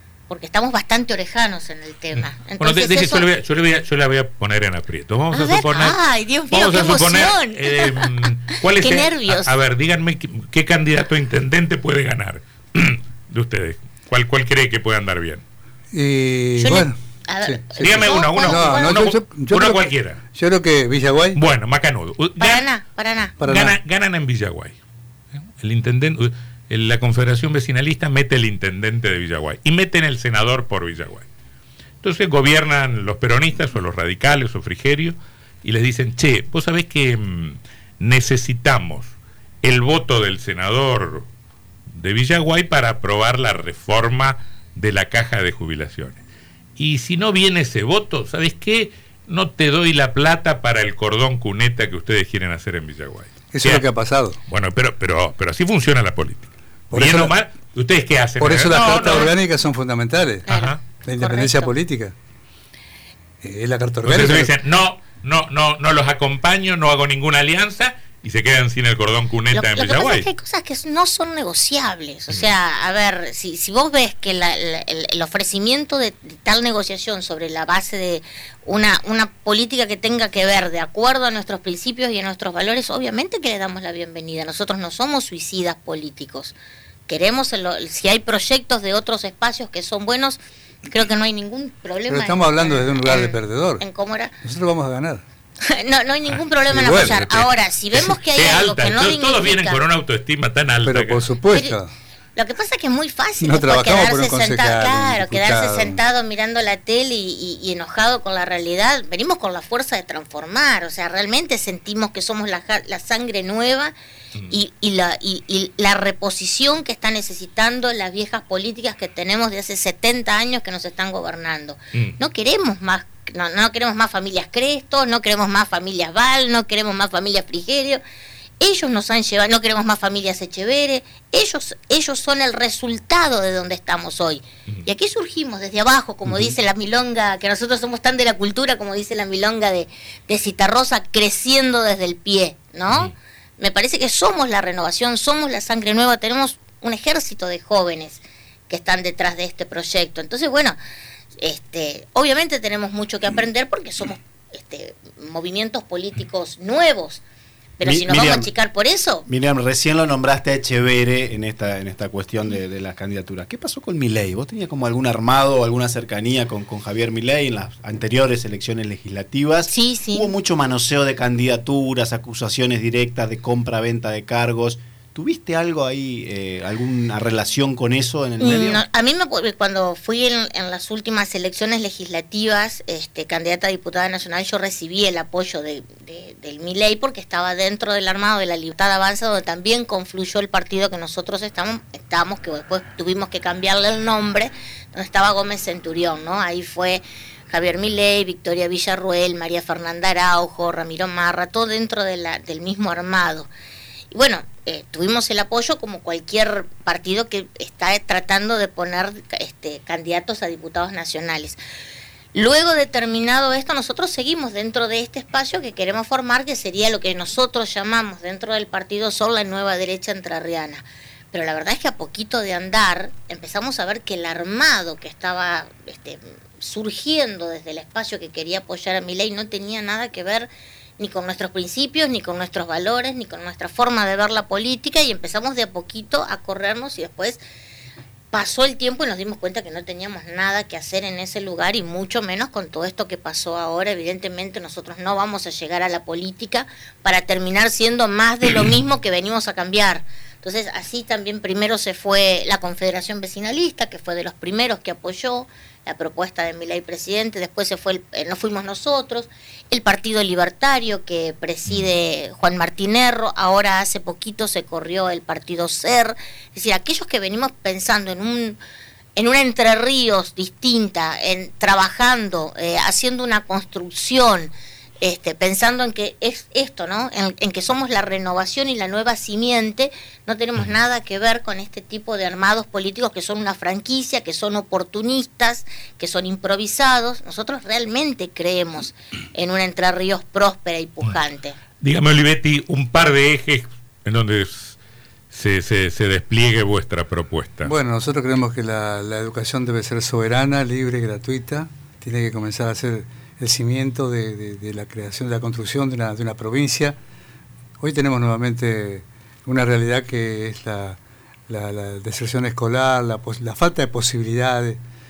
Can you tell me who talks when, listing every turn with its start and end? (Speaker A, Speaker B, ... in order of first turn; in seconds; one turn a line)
Speaker A: 0.3-3.2
Speaker B: 2.1-6.0
Speaker A: 5.3-9.6
Speaker B: 6.5-15.4
Speaker C: 15.9-21.4
Speaker A: 16.6-19.0
Speaker B: 17.8-20.2
Speaker B: 21.3-22.7
Speaker A: 22.4-23.3
Speaker C: 23.4-23.8
Speaker B: 23.4-24.8
Speaker B: 25.4-31.2
Speaker B: 32.0-41.3
Speaker B: 41.9-46.2
Speaker B: 46.8-53.8
Speaker C: 53.5-54.4
Speaker B: 54.5-59.3
Speaker C: 56.9-57.4
Speaker C: 58.4-62.1
Speaker A: 58.7-59.3
Speaker A: 60.5-61.7
Speaker B: 60.5-60.8
Speaker C: 63.4-64.5
Speaker B: 64.0-70.3
Speaker A: 69.5-86.5
Speaker A: 87.1-94.3
Speaker C: 92.1-93.8
Speaker C: 94.4-95.2
Speaker A: 95.7-99.8
Speaker C: 96.7-97.2
Speaker B: 96.8-101.2
Speaker C: 100.8-101.9
Speaker A: 101.5-101.8
Speaker A: 102.3-113.9
Speaker C: 103.4-106.0
Speaker A: 114.5-128.0
Speaker A: 128.6-150.8
Speaker A: 151.4-157.2
Speaker A: 157.8-159.3
Speaker D: 157.8-158.5
Speaker D: 159.3-178.8
Speaker A: 169.7-170.3
Speaker A: 178.4-203.5
Speaker A: 204.1-211.6
Speaker A: 212.3-237.4
Speaker A: 238.3-268.6
Speaker A: 269.1-291.6
Speaker B: 291.8-294.8
Speaker B: 295.3-297.7
Speaker C: 297.6-307.0
Speaker C: 307.8-314.8